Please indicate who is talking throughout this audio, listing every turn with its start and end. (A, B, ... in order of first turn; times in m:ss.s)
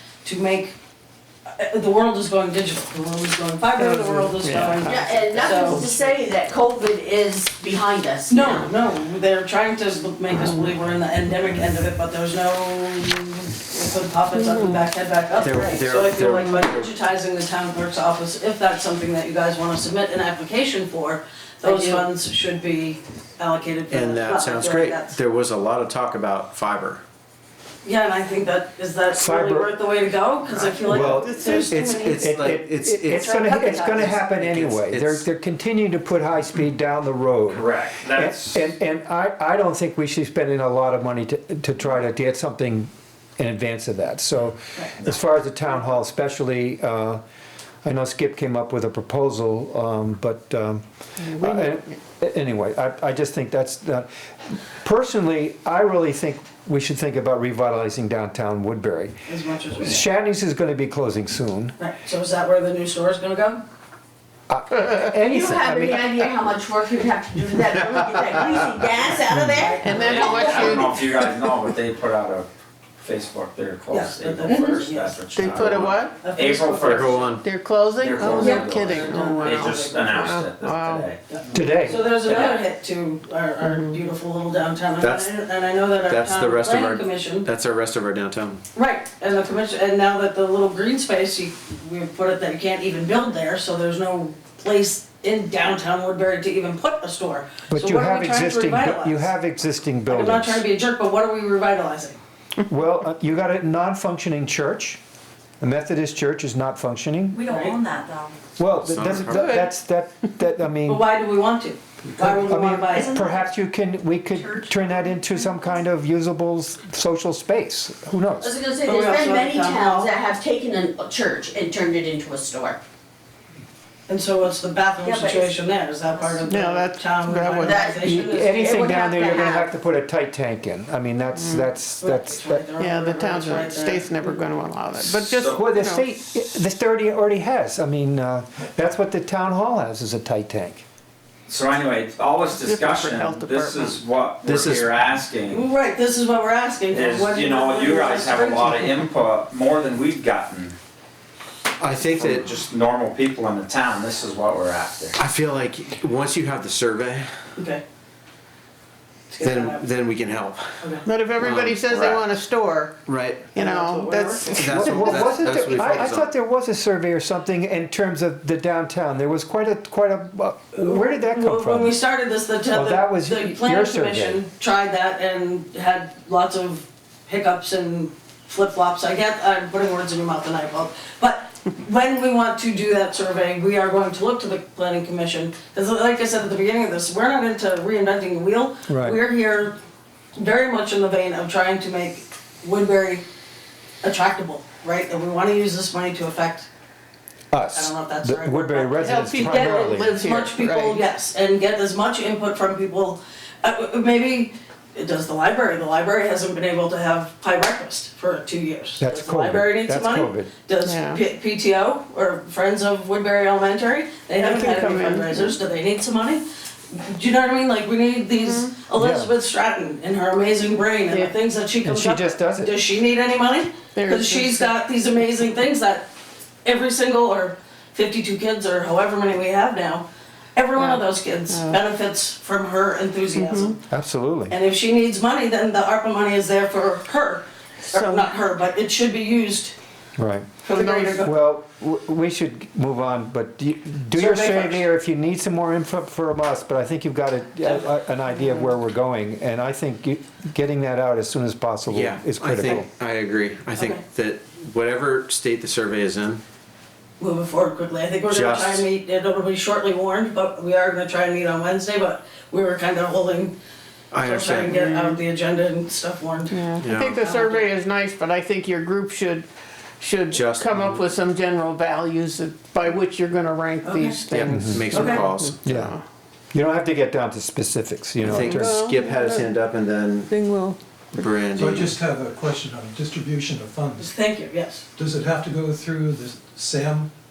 0:00.2-0:00.7 A
0:01.5-0:05.8 A
0:03.8-0:05.1 B
0:04.8-0:08.6 C
0:08.3-0:25.2 A
0:14.4-0:14.8 B
0:15.4-0:16.9 D
0:21.6-0:22.1 B
0:23.9-0:27.0 D
0:27.8-0:32.3 A
0:29.1-0:29.7 E
0:30.6-0:31.8 B
0:30.8-0:31.4 E
0:31.6-0:35.2 D
0:32.1-0:47.2 E
0:33.1-0:34.2 A
0:37.5-0:38.5 F
0:37.6-0:38.0 D
0:47.8-0:59.2 E
0:51.3-0:51.8 B
0:59.3-1:00.0 A
0:59.7-1:01.7 E
1:01.8-1:03.6 A
1:04.5-1:06.2 E
1:05.2-1:11.1 C
1:09.3-1:09.7 E
1:09.8-1:11.3 B
1:10.0-1:17.1 F
1:10.3-1:10.9 D
1:13.9-1:15.2 A
1:14.8-1:15.7 D
1:15.3-1:16.2 B
1:16.2-1:17.4 A
1:16.8-1:17.4 D
1:17.4-1:21.1 B
1:18.0-1:21.2 F
1:18.0-1:19.1 D
1:18.3-1:20.0 A
1:18.4-1:18.6 C
1:19.6-1:20.0 D
1:21.3-1:27.5 A
1:21.5-1:22.0 E
1:22.2-1:22.6 F
1:23.6-1:24.0 B
1:25.0-1:25.3 D
1:26.0-1:28.6 D
1:28.7-1:39.3 A
1:37.7-1:40.6 E
1:40.1-1:42.2 A
1:42.6-1:45.0 E
1:45.6-1:47.4 E
1:47.3-1:48.4 G
1:47.5-1:47.8 A
1:48.6-1:51.0 E
1:48.8-1:49.6 D
1:49.3-1:49.7 B
1:50.8-1:53.2 A
1:52.2-1:58.5 E
1:54.3-1:55.3 G
1:58.4-2:02.8 C
1:58.8-2:00.1 A
2:04.1-2:08.6 A
2:05.0-2:05.6 C
2:06.1-2:06.4 C
2:06.4-2:07.8 B
2:07.6-2:09.7 C
2:08.0-2:12.6 E
2:11.3-2:11.7 B
2:12.0-2:14.4 A
2:12.8-2:16.1 B
2:15.6-2:20.8 E
2:21.5-2:25.6 F
2:22.4-2:24.0 B
2:24.3-2:25.2 D
2:25.5-2:29.0 A
2:26.9-2:30.7 F
2:31.8-2:32.6 D
2:32.1-2:35.2 F
2:35.2-2:37.3 D
2:37.6-2:37.8 A
2:39.3-2:39.8 A
2:39.4-2:42.3 D
2:41.0-2:45.3 B
2:43.0-2:43.5 D
2:43.5-2:44.6 A
2:44.5-2:46.3 D
2:44.6-2:51.9 E
2:50.8-3:09.8 A
2:52.7-2:54.4 E
3:08.9-3:09.2 E
3:10.4-3:13.2 A
3:14.0-3:16.7 A
3:17.5-3:20.1 E
3:17.7-3:46.1 A
3:19.0-3:21.0 B
3:29.0-3:30.5 E
3:30.8-3:31.2 B
3:34.4-3:35.6 B
3:38.4-3:38.7 B
3:38.9-3:39.3 E
3:41.8-3:42.7 E
3:43.9-3:44.7 B
3:46.6-3:53.8 A
3:50.7-3:51.8 B
3:53.4-3:53.8 B
3:53.9-3:54.5 E
3:54.5-3:59.8 A
3:57.9-3:58.3 B
4:00.2-4:12.9 E
4:00.6-4:01.3 B
4:00.7-4:01.3 A
4:04.1-4:04.8 A
4:11.9-4:16.4 D
4:13.8-4:14.0 A
4:17.2-4:23.6 A
4:18.3-4:18.8 D
4:24.1-4:24.8 D
4:24.2-4:27.7 A
4:24.7-4:25.2 B
4:26.5-4:29.5 B
4:26.8-4:27.2 D
4:30.0-4:36.0 B
4:30.3-4:31.0 D
4:33.8-4:34.2 A
4:34.3-4:35.9 D
4:34.5-4:34.9 E
4:34.9-4:35.2 A
4:35.6-4:35.9 E
4:36.5-4:38.8 E
4:38.2-4:39.6 B
4:38.3-4:40.3 D
4:40.3-4:40.8 B
4:41.1-4:42.0 D
4:41.4-4:44.1 H
4:44.0-4:44.8 A
4:45.0-4:47.1 H